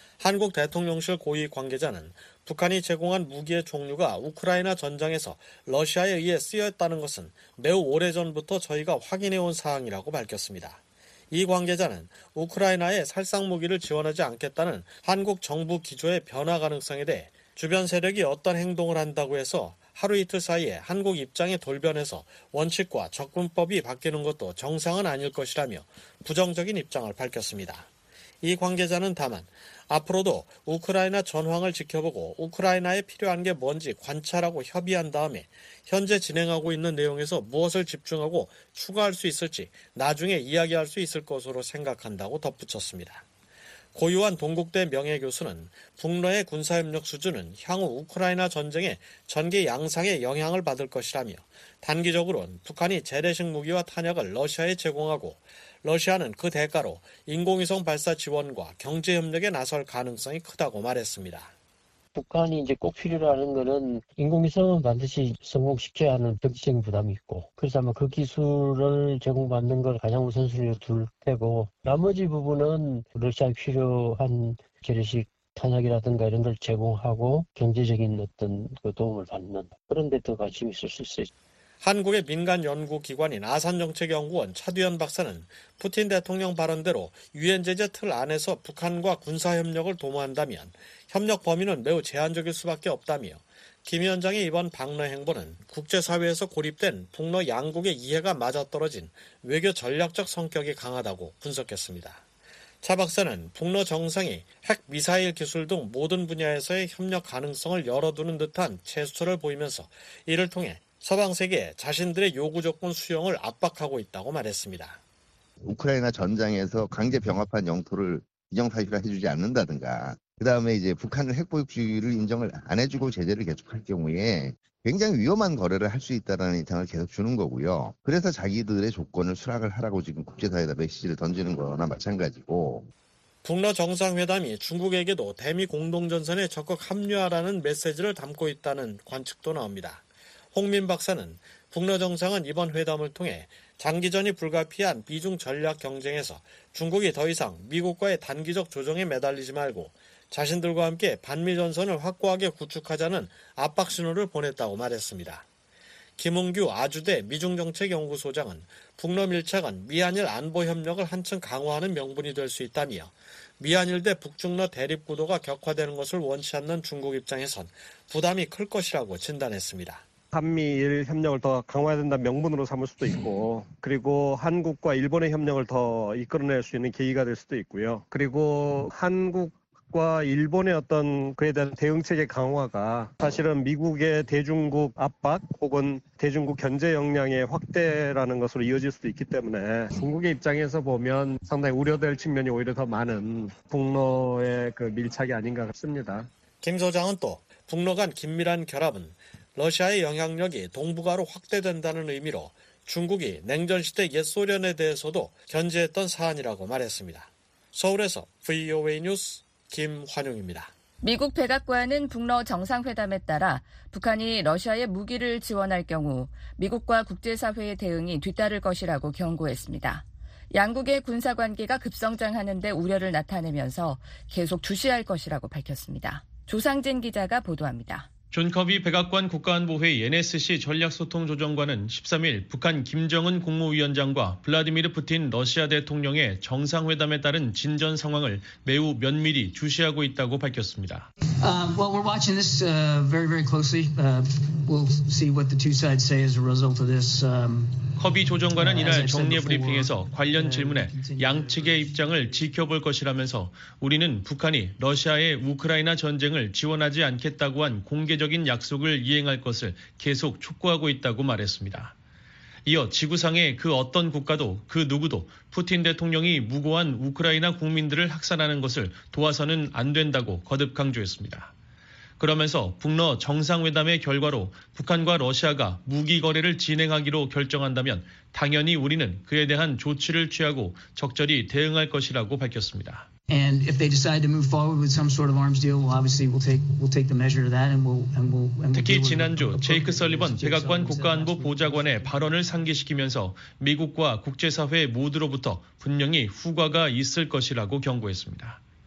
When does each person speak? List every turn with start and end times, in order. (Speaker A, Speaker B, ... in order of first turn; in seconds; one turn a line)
Speaker A: 0.2-27.9
Speaker A: 28.4-43.2
Speaker A: 43.9-61.5
Speaker B: 62.1-81.3
Speaker A: 81.8-102.2
Speaker A: 102.8-115.0
Speaker C: 115.6-132.9
Speaker A: 133.4-155.4
Speaker A: 156.2-170.0
Speaker D: 170.3-196.3
Speaker A: 196.6-210.7
Speaker E: 211.0-228.1
Speaker F: 228.3-241.1
Speaker G: 241.4-252.5
Speaker F: 248.0-261.9
Speaker F: 262.6-271.5
Speaker F: 272.2-283.1
Speaker G: 283.3-292.7
Speaker F: 288.7-298.6